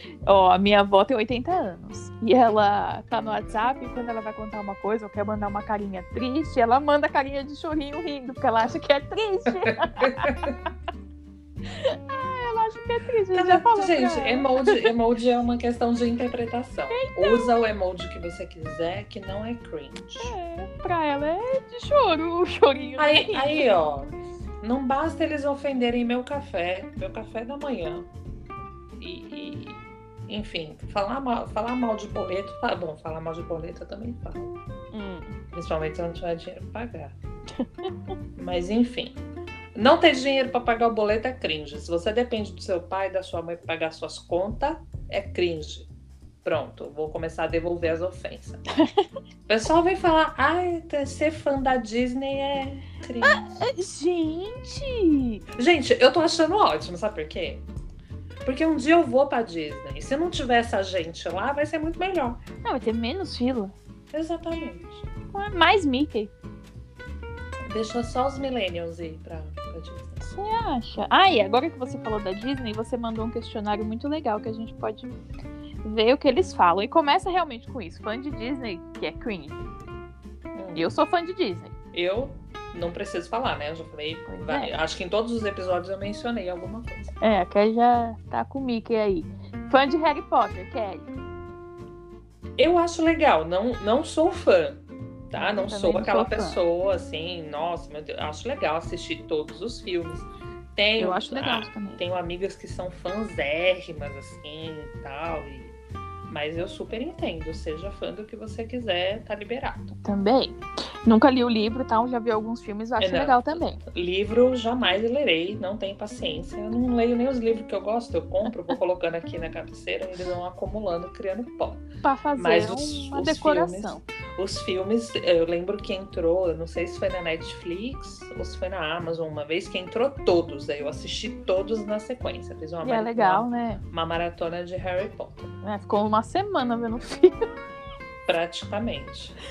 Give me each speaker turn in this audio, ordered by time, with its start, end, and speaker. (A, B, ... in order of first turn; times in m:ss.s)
0:00.2-0:10.5 A
0:09.7-0:10.5 B
0:11.7-0:14.9 A
0:13.3-0:20.3 B
0:16.9-0:17.5 A
0:20.2-0:23.6 A
0:23.0-0:28.1 B
0:29.0-0:34.5 B
0:34.9-0:35.4 A
0:35.5-0:37.2 B
0:38.4-0:39.2 B
0:39.7-0:45.9 B
0:46.4-0:48.6 B
0:49.5-0:53.6 B
0:53.2-0:55.4 A
0:55.6-0:57.6 B
0:58.4-1:02.4 B
1:02.6-1:03.7 A
1:04.1-1:05.1 B
1:05.3-1:06.3 A
1:07.7-1:10.3 B
1:10.3-1:15.1 A
1:15.8-1:19.6 A
1:20.5-1:20.9 B
1:20.7-1:21.7 A
1:21.9-1:27.1 B
1:24.3-1:24.7 A
1:27.2-1:31.1 A
1:32.6-1:45.7 B
1:35.4-1:36.6 A
1:41.0-1:42.0 A
1:46.3-1:49.9 B
1:50.0-1:53.8 A
1:53.0-2:01.8 B
2:02.0-2:04.0 A
2:02.4-2:15.5 B
2:12.8-2:13.8 A
2:15.6-2:17.6 A
2:18.2-2:19.4 B